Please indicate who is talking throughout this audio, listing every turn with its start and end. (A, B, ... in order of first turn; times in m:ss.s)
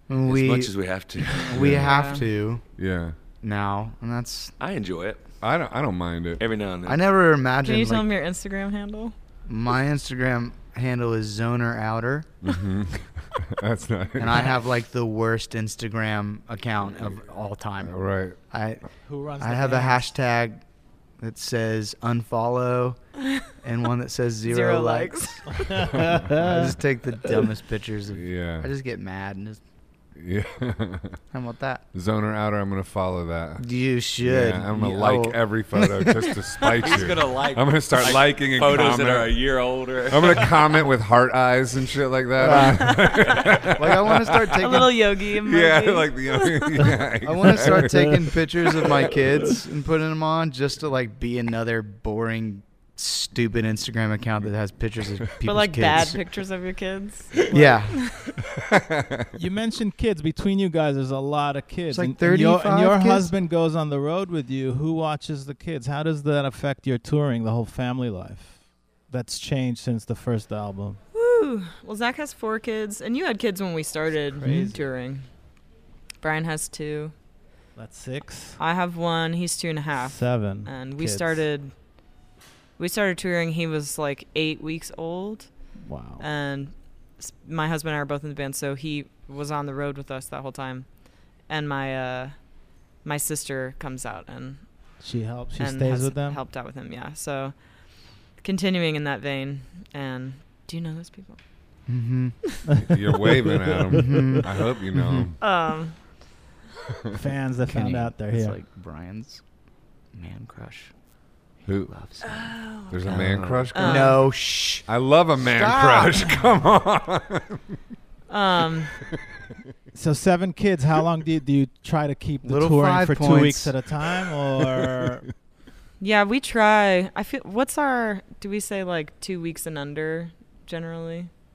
0:00.1-0:02.6 A
0:00.3-0:01.8 B
0:01.5-0:02.0 C
0:01.8-0:02.2 D
0:02.8-0:03.2 C
0:03.4-0:04.5 A
0:04.6-0:05.2 B
0:05.4-0:06.4 C
0:06.4-0:07.0 B
0:06.9-0:08.1 A
0:07.6-0:09.1 D
0:09.5-0:12.3 A
0:12.4-0:14.6 C
0:14.2-0:18.0 A
0:17.8-0:18.4 C
0:18.5-0:18.8 A
0:19.0-0:20.1 E
0:19.4-0:20.6 A
0:21.2-0:23.0 A
0:23.6-0:25.4 A
0:24.4-0:25.6 D
0:25.5-0:26.8 E
0:25.8-0:26.3 C
0:26.3-0:29.6 A
0:28.1-0:28.7 C
0:30.2-0:31.2 C
0:31.3-0:31.8 A
0:31.9-0:39.4 C
0:33.6-0:36.7 A
0:36.6-0:40.6 B
0:40.1-0:44.6 C
0:42.4-0:43.2 A
0:42.6-0:43.7 D
0:43.7-0:44.9 A
0:44.4-0:47.0 D
0:45.2-0:48.3 C
0:47.2-0:56.2 A
0:55.4-0:57.5 D
0:57.5-0:58.0 A
0:58.0-0:58.4 D
0:58.6-0:59.4 C
0:59.3-1:11.0 E
1:01.9-1:03.3 A
1:11.1-1:15.3 D
1:14.4-1:14.8 E
1:16.2-1:17.1 D
1:17.8-1:18.6 E
1:18.6-1:21.8 D
1:20.0-1:21.4 E
1:22.8-1:25.6 D
1:25.8-1:26.2 E
1:26.2-1:32.5 D
1:33.0-1:35.0 D
1:35.0-1:36.4 E
1:35.6-1:37.7 D
1:38.2-1:41.4 D
1:41.9-1:42.4 A
1:42.7-1:44.4 E
1:42.8-1:45.4 C
1:43.9-1:45.3 A
1:45.4-1:46.2 D
1:47.1-1:48.6 E
1:47.7-1:49.4 A
1:50.1-1:50.9 A
1:51.6-1:51.9 C
1:51.8-1:54.9 A
1:52.2-1:53.1 D
1:52.9-1:54.2 C
1:53.2-1:53.6 B
1:53.7-1:54.2 D
1:54.9-1:57.8 C
1:55.4-1:56.2 A
1:58.3-1:59.0 D
1:59.9-2:05.3 E
2:02.4-2:03.7 A
2:06.0-2:11.3 D